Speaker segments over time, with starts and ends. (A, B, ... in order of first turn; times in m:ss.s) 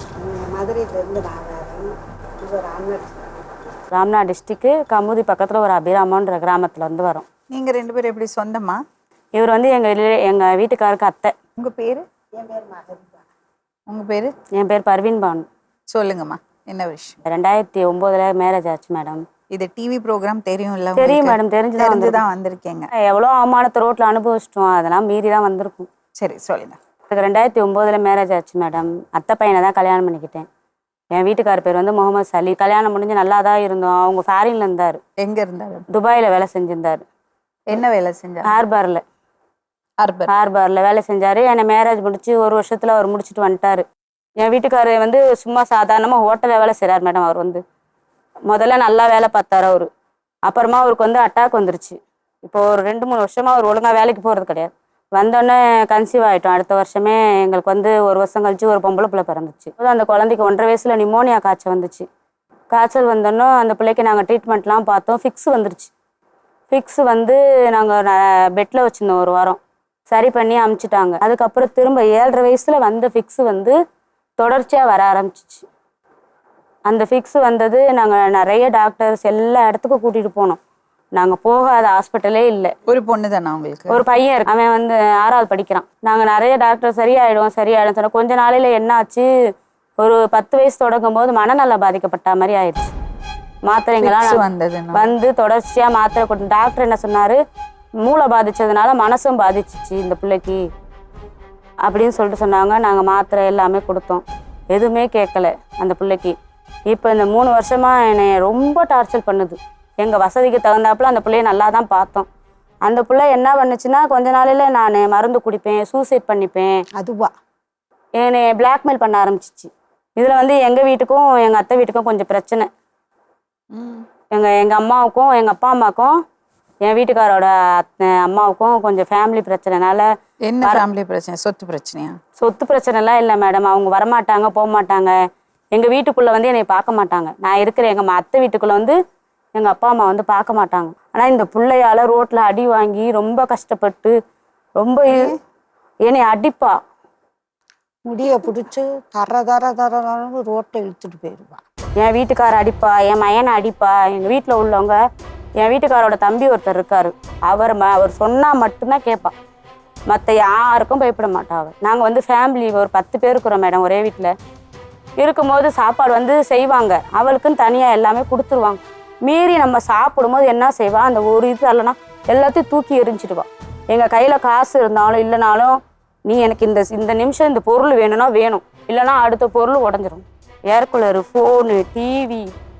0:00.2-0:03.7 A
0:03.9-0:07.3 B
0:07.5-0:08.8 C
0:09.3-0:11.4 B
0:11.6-0:12.0 C
0:12.4-0:13.3 A
0:13.9-0:14.4 C
0:14.5-0:15.5 B
0:15.9-0:17.2 C
0:17.2-0:19.2 B
0:19.5-0:22.9 C
0:21.0-0:22.2 B
0:23.0-0:25.9 B
0:26.2-0:26.8 C
0:27.1-0:30.5 B
0:31.1-0:35.0 B
0:35.2-0:35.8 C
0:35.9-0:37.0 B
0:37.7-0:38.6 C
0:38.4-0:39.0 B
0:40.0-0:40.3 C
0:40.3-0:43.8 B
0:44.4-0:47.6 B
0:48.5-0:49.9 B
0:50.4-1:02.0 B
1:02.7-1:05.9 B
1:06.7-1:13.8 B
1:14.4-1:15.6 B
1:16.9-1:20.6 B
1:21.2-1:22.8 B
1:22.9-1:24.0 C
1:23.9-1:29.3 B
1:30.0-1:32.9 B
1:33.7-1:37.4 B
1:34.0-1:35.1 C
1:38.0-1:40.6 B
1:41.8-1:46.3 B
1:46.9-1:52.3 B
1:52.9-1:56.8 B
1:57.0-1:57.3 A
1:58.2-2:02.7 B
2:03.7-2:04.1 C
2:04.3-2:06.2 B
2:06.9-2:10.1 B
2:10.5-2:12.2 C
2:12.4-2:15.2 B
2:15.7-2:19.0 B
2:19.6-2:24.2 B
2:24.8-2:25.3 B
2:26.1-2:26.8 B
2:28.0-2:31.6 A
2:32.0-2:35.0 B
2:35.6-2:39.3 B
2:40.1-2:44.3 B
2:45.2-3:02.5 B